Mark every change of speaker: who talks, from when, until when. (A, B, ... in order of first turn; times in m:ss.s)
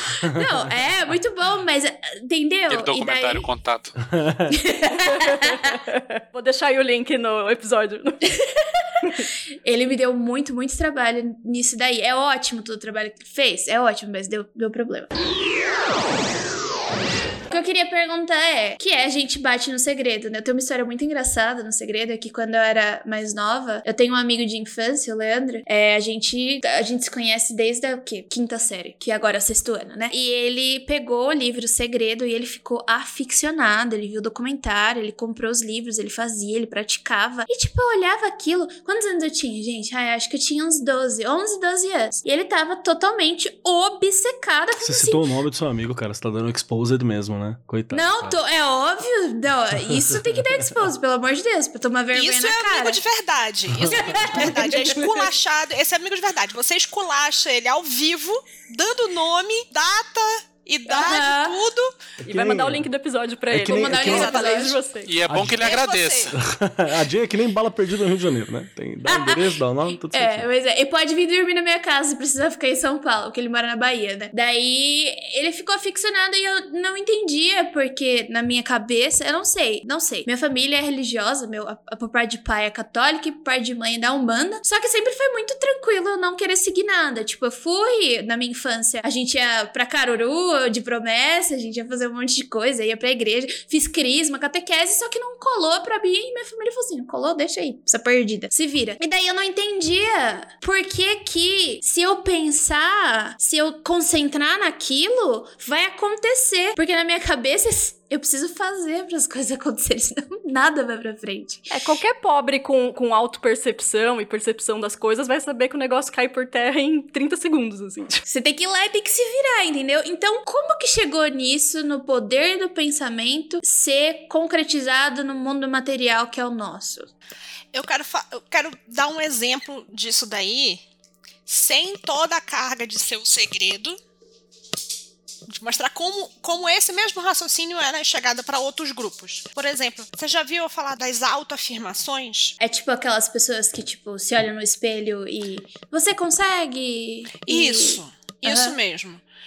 0:00.2-0:03.5 A
0:02.7-0:04.0 B
0:04.1-0:04.6 C
0:04.5-0:05.7 A
0:05.1-0:08.2 D
0:09.6-0:15.1 A
0:17.5-0:45.2 A
0:44.8-0:48.4 C
0:47.9-0:53.0 A
0:49.9-0:50.9 C
0:52.1-1:01.9 E
0:53.8-0:54.4 C
0:53.9-0:55.3 A
0:54.6-0:54.9 D
1:00.9-1:01.6 A
1:02.2-1:05.2 D
1:02.2-1:02.9 C
1:03.5-1:04.4 C
1:03.7-1:04.8 A
1:05.0-1:06.4 B
1:05.3-1:05.7 C
1:05.6-1:06.3 E
1:06.4-1:10.5 C
1:09.1-1:09.5 A
1:10.0-1:51.7 A
1:51.7-1:58.2 D
1:58.3-2:07.1 A
2:07.7-2:10.8 E
2:11.5-2:14.0 E
2:15.5-2:22.6 E
2:22.6-2:28.8 A
2:27.3-2:29.2 E